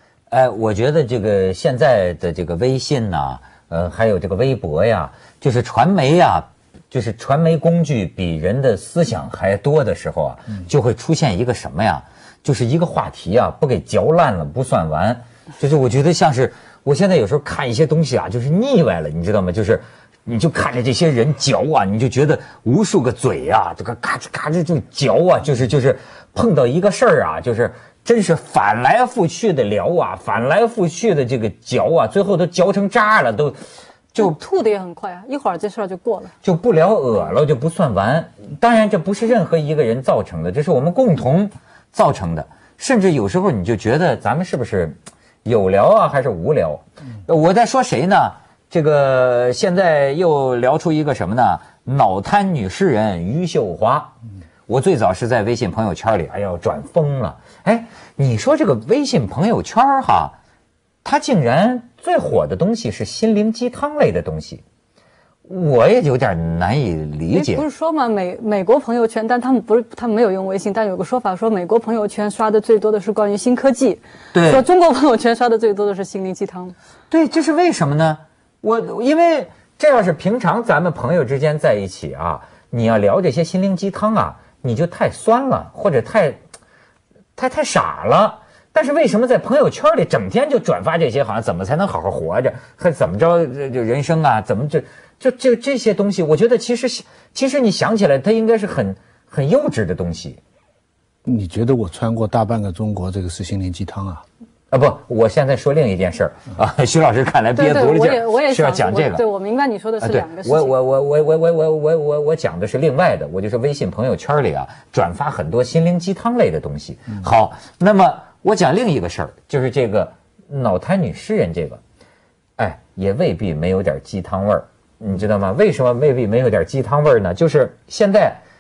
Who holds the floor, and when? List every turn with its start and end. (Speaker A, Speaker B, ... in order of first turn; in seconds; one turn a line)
Speaker A: 0.3-33.6
Speaker B: 34.1-36.3
Speaker A: 36.4-54.1
Speaker A: 54.7-60.4
Speaker A: 61.0-64.6
Speaker A: 65.5-67.6
Speaker B: 67.3-76.7
Speaker A: 74.3-74.6
Speaker A: 77.1-86.4
Speaker A: 87.4-100.4
Speaker C: 101.2-104.2
Speaker A: 104.7-109.2
Speaker B: 107.5-110.8
Speaker A: 110.0-121.8
Speaker A: 122.6-128.4